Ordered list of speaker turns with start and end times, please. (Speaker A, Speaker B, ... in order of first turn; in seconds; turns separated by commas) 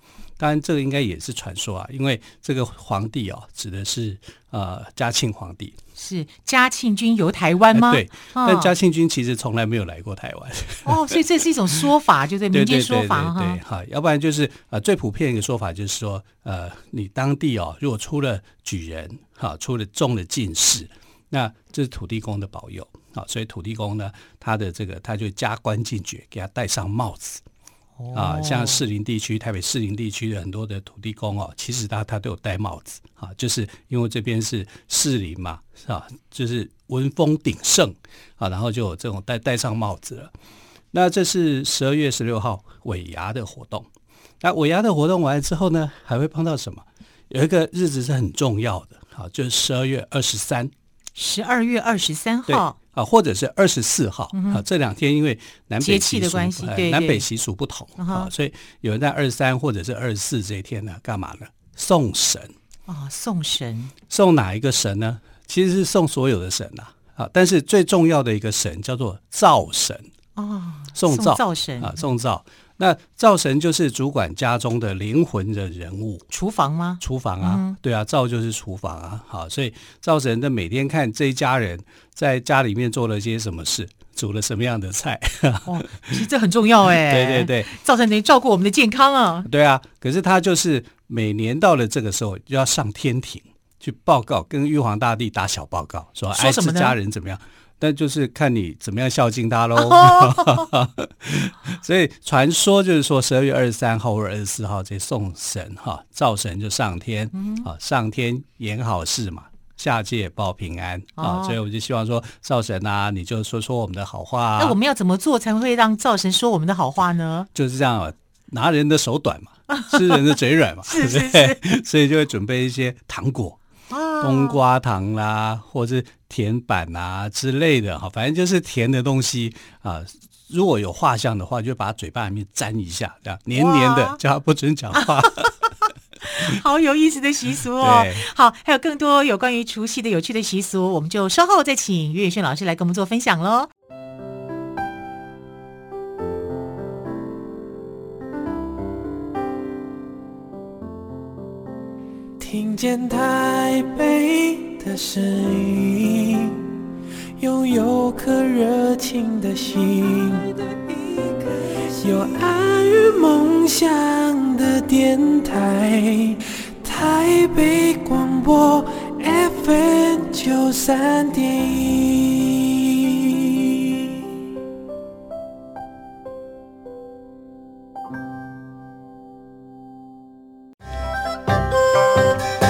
Speaker A: 0.4-5.7, Speaker B: 6.0-8.7, Speaker A: 7.7-11.2, Speaker B: 10.8-13.6, Speaker A: 12.5-27.4, Speaker B: 28.0-28.8, Speaker A: 28.1-40.3, Speaker A: 40.9-43.9, Speaker A: 44.4-50.7, Speaker B: 51.1-52.8, Speaker A: 52.5-62.5, Speaker B: 54.3-54.6, Speaker B: 55.8-57.2, Speaker B: 58.0-58.3, Speaker B: 62.9-63.9, Speaker A: 64.1-70.0, Speaker B: 70.3-72.0, Speaker A: 70.9-76.2, Speaker B: 76.3-77.8, Speaker A: 77.0-86.2, Speaker B: 85.7-89.5, Speaker A: 87.0-87.7, Speaker A: 89.4-114.8, Speaker B: 96.3-97.0, Speaker B: 99.8-100.7, Speaker B: 107.3-107.7, Speaker B: 111.2-111.6, Speaker B: 114.6-117.5, Speaker A: 117.5-123.6, Speaker B: 119.7-120.3, Speaker B: 120.8-121.6, Speaker B: 123.9-124.6, Speaker A: 124.2-135.5, Speaker B: 133.6-134.2, Speaker B: 134.9-143.7, Speaker A: 137.8-138.2, Speaker C: 152.4-156.8, Speaker C: 157.4-174.4